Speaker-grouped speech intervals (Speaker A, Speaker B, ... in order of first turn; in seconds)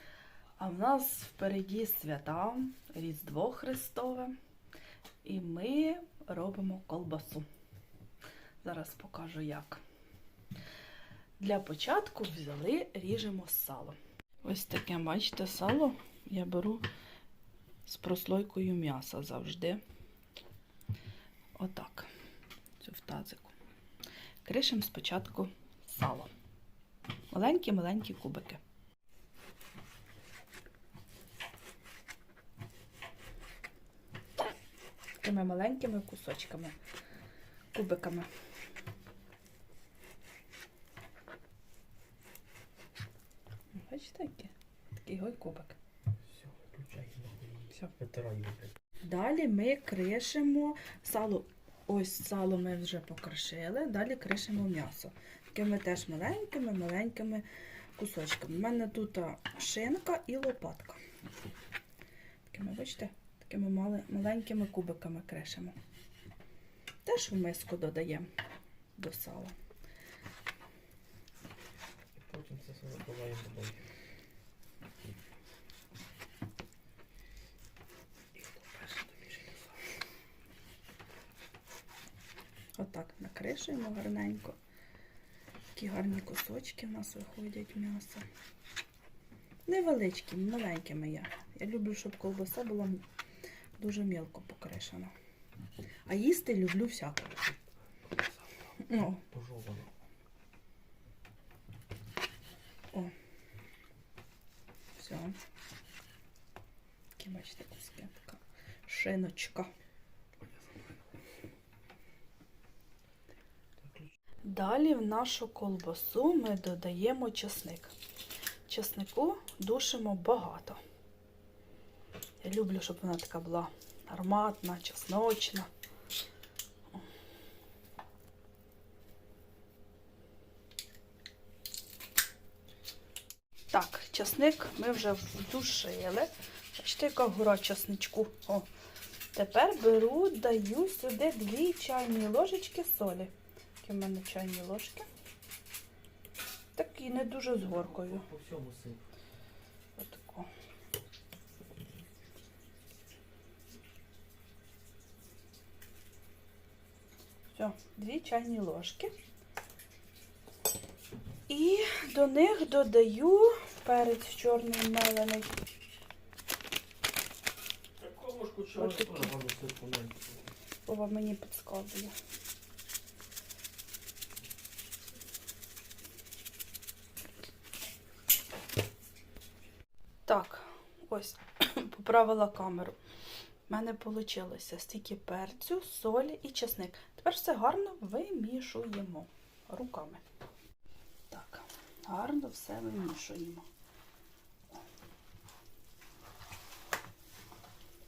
Speaker A: 0.6-4.3, 5.2-7.5, 8.6-9.8, 11.4-16.8, 17.8-19.8, 21.6-22.1, 22.8-23.5, 24.4-26.3, 27.3-28.6, 35.2-36.7, 37.7-38.3, 43.7-45.8, 49.0-57.4, 58.0-61.0, 62.5-65.8, 67.0-68.3, 69.0-69.5, 78.8-79.2, 82.8-84.5, 85.7-88.2, 89.7-93.0, 93.8-95.1, 96.1-97.5, 98.8-99.2, 105.0-105.4, 107.2-109.7, 114.5-117.9, 118.7-120.8, 122.4-125.7, 133.7-138.7, 139.3-145.1, 146.7-148.2, 150.0-150.5, 157.5-159.1, 161.5-165.5, 168.7-169.3, 170.8-172.1, 180.2-183.0, 183.7-190.2, 191.3-193.7
Speaker B: 46.3-48.7, 72.1-73.9, 98.9-99.9, 147.8-149.0, 168.0-170.4